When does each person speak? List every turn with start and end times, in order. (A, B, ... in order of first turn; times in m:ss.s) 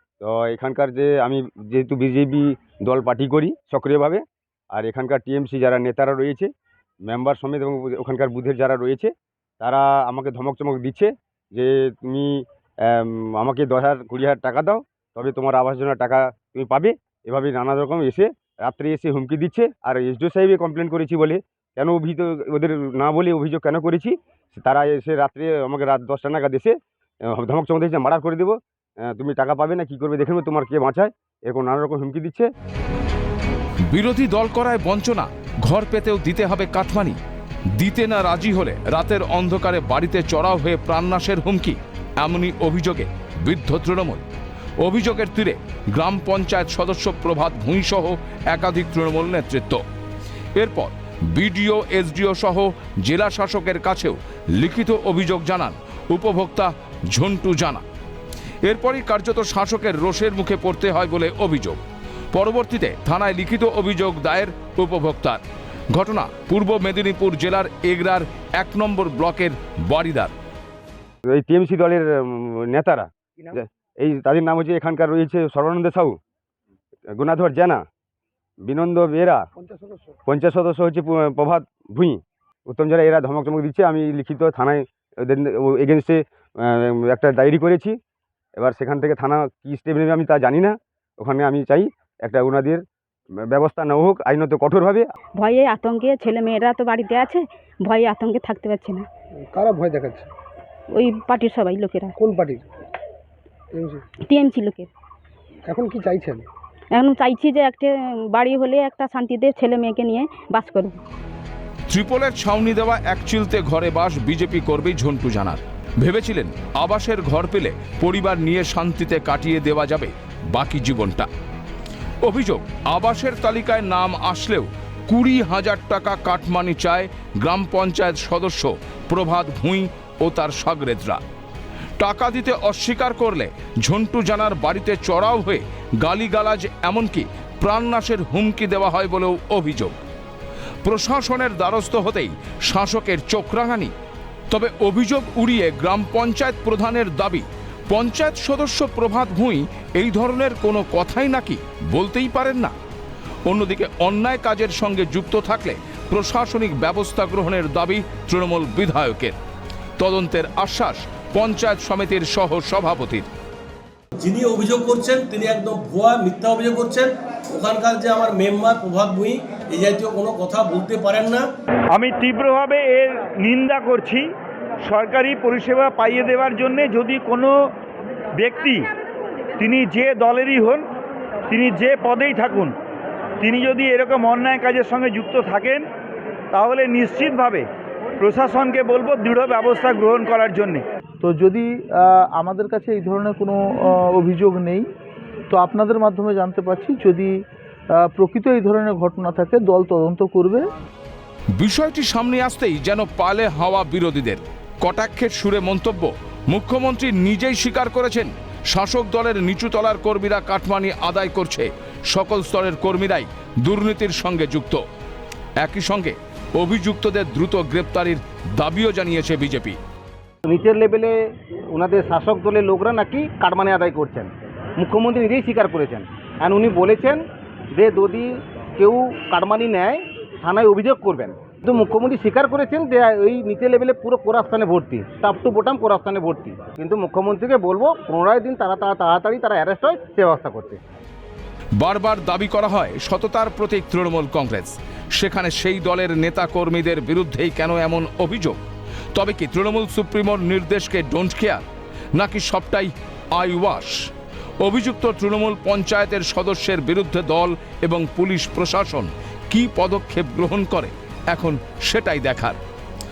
0:00.2-0:06.5 A
0:07.1-0:26.8 A
0:27.3-0:32.5 A
0:33.9-0:37.2 B
0:37.8-0:44.2 B
0:44.8-0:49.8 B
0:50.6-0:57.8 B
0:58.6-1:01.8 B
1:02.3-1:05.4 B
1:05.9-1:10.3 B
1:11.3-1:16.2 A
1:17.1-1:17.8 A
1:18.6-1:19.4 A
1:19.6-1:20.1 C
1:20.3-1:27.9 A
1:28.6-1:32.8 A
1:33.5-1:35.0 A
1:35.4-1:39.0 D
1:39.5-1:40.3 C
1:40.9-1:42.2 D
1:42.2-1:42.6 C
1:43.7-1:44.0 C
1:44.2-1:44.9 D
1:45.6-1:46.5 C
1:46.9-1:51.0 D
1:51.9-2:01.3 B
2:02.2-2:11.2 B
2:12.0-2:20.0 B
2:20.8-2:23.9 B
2:24.5-2:32.7 B
2:33.5-2:39.4 B
2:40.0-2:43.3 B
2:44.2-2:51.5 E
2:51.9-2:54.3 F
2:54.8-2:57.5 F
2:58.4-2:58.9 F
2:59.6-3:00.9 F
3:01.5-3:02.8 F
3:03.4-3:05.9 F
3:06.5-3:07.7 F
3:08.2-3:10.8 F
3:11.2-3:14.8 G
3:15.5-3:17.3 G
3:18.0-3:20.6 G
3:21.6-3:34.8 B
3:35.6-3:39.8 B
3:40.4-4:00.8 H
4:01.8-4:08.6 B
4:09.1-4:11.6 B
4:12.2-4:14.0 B
4:14.6-4:22.6 B